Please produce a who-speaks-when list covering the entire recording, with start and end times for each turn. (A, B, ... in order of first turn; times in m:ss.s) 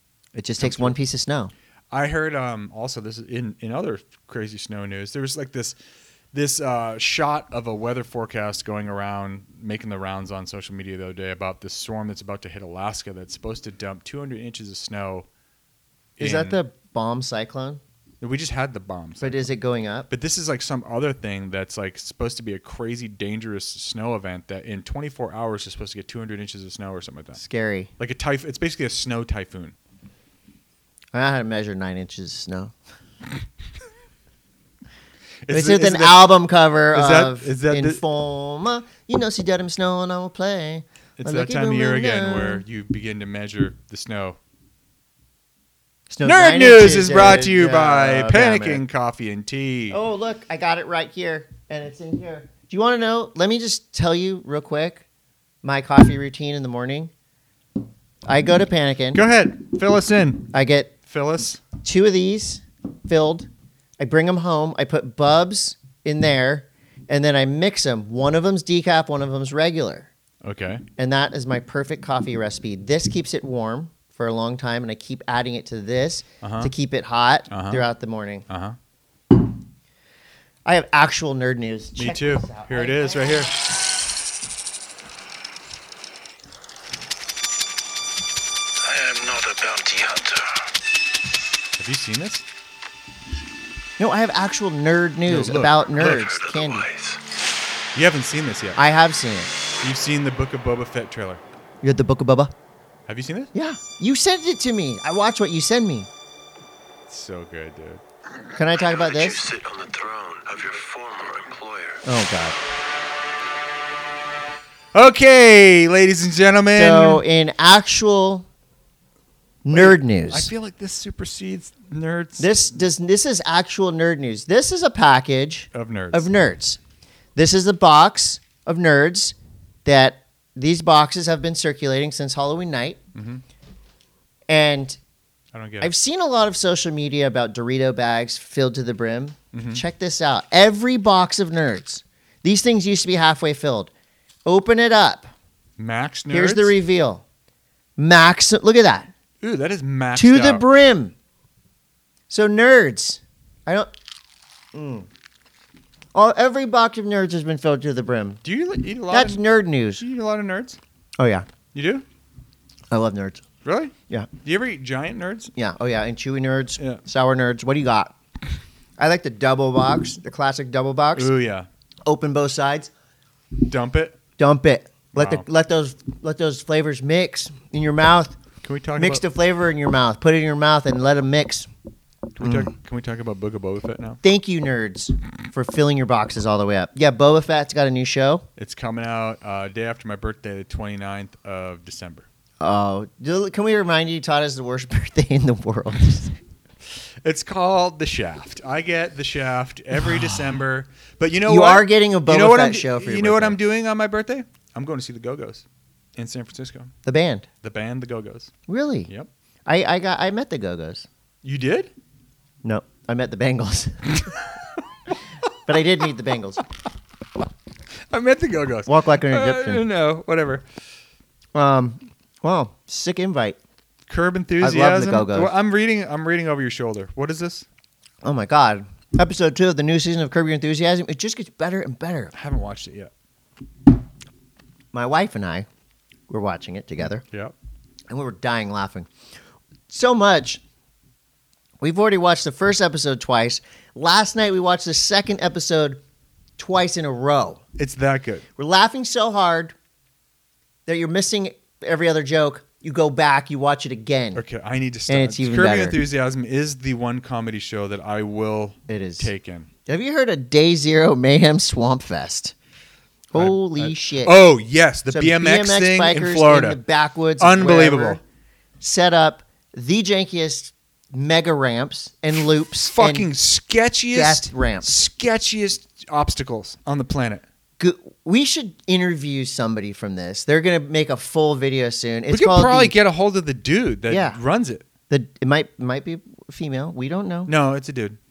0:00.3-0:01.5 A
0:00.6-0:01.0 B
0:01.9-0:05.8 B
0:06.3-0:15.3 B
0:16.2-0:16.6 B
0:16.2-0:17.8 A
0:18.2-0:19.4 B
0:19.2-0:20.1 A
0:20.1-0:27.4 B
0:27.4-0:27.9 A
0:28.0-0:29.7 B
0:31.1-0:32.7 A
0:35.5-0:36.3 B
0:35.5-0:42.6 A
0:36.9-0:38.0 B
0:41.2-0:44.4 B
0:46.1-0:48.8 A
0:46.2-0:50.0 B
0:49.9-0:55.0 A
0:55.6-0:57.1 A
0:58.2-0:59.2 A
0:59.1-1:00.5 B
1:00.5-1:00.9 A
1:01.1-1:01.6 B
1:01.8-1:10.1 A
1:10.4-1:10.8 B
1:11.0-1:18.4 A
1:16.4-1:16.7 B
1:17.5-1:17.8 B
1:18.5-1:18.8 B
1:20.6-1:23.5 A
1:22.0-1:23.6 B
1:28.8-1:30.7 C
1:31.8-1:32.4 B
1:34.0-1:36.8 A
1:35.2-1:36.3 B
1:36.0-1:37.2 C
1:37.9-1:38.8 B
1:38.8-1:39.5 A
1:39.8-1:41.4 B
1:41.8-1:42.5 A
1:43.1-1:43.5 B
1:43.5-1:46.1 A
1:47.1-1:48.0 B
1:48.5-1:49.4 A
1:48.7-1:52.0 C
1:52.0-1:52.6 A
1:54.9-1:57.2 B
1:56.7-1:58.4 A
1:59.6-2:00.5 A
1:59.7-2:02.5 B
2:02.4-2:06.8 A
2:05.7-2:06.3 B
2:07.4-2:13.0 A
2:13.1-2:13.4 B
2:14.5-2:15.0 A
2:15.5-2:15.9 B
2:15.8-2:23.9 A
2:19.5-2:19.8 B
2:24.4-2:25.3 A
2:25.8-2:26.7 B
2:26.3-2:27.2 A
2:28.0-2:29.1 A
2:29.4-2:30.6 B
2:30.1-2:31.1 A
2:32.3-2:33.9 A
2:34.7-2:35.1 A
2:36.1-2:38.4 A
2:38.4-2:39.4 B
2:39.1-2:40.0 A
2:40.0-2:40.8 B
2:41.2-2:41.5 A
2:41.7-2:42.0 B
2:42.9-2:43.4 A
2:43.6-2:45.5 B
2:45.5-2:48.1 A
2:49.0-2:51.3 A
2:51.2-2:51.7 B
2:52.0-2:52.9 A
2:53.6-2:54.2 B
2:54.4-2:58.4 A
2:55.1-2:55.4 B
2:58.6-2:59.2 B
2:59.0-3:01.7 A
3:02.4-3:04.2 B
3:02.4-3:02.7 A
3:04.2-3:08.4 A
3:08.6-3:12.2 B
3:12.6-3:16.4 A
3:17.2-3:25.6 B
3:21.4-3:23.6 A
3:26.2-3:26.9 B
3:27.0-3:27.5 A
3:27.6-3:28.5 B
3:28.7-3:29.1 A
3:29.6-3:31.1 A
3:31.4-3:31.9 B
3:32.6-3:34.3 A
3:35.6-3:36.6 A
3:38.1-3:40.6 B
3:38.9-3:39.8 A
3:41.5-3:43.6 A
3:44.1-3:47.6 B
3:44.6-3:45.5 A
3:48.2-3:52.3 A
3:52.3-3:53.1 B
3:54.9-3:55.7 A
3:56.3-3:57.2 A
3:57.3-3:57.5 B
3:58.1-3:59.1 A
3:59.9-4:00.6 A
4:01.8-4:06.0 A
4:06.6-4:07.6 A
4:07.8-4:08.4 B
4:08.6-4:09.7 A
4:10.9-4:14.4 A
4:14.3-4:19.7 B
4:15.1-4:16.0 A
4:18.9-4:19.3 A
4:19.8-4:22.5 A
4:23.3-4:24.4 A
4:23.3-4:26.8 B
4:25.1-4:28.2 A
4:27.4-4:28.2 B
4:28.8-4:33.3 A
4:32.8-4:37.4 B
4:34.1-4:34.9 A
4:37.8-4:43.0 A
4:42.3-4:44.8 B
4:44.1-4:44.4 A
4:45.1-4:47.5 A
4:47.5-4:48.2 B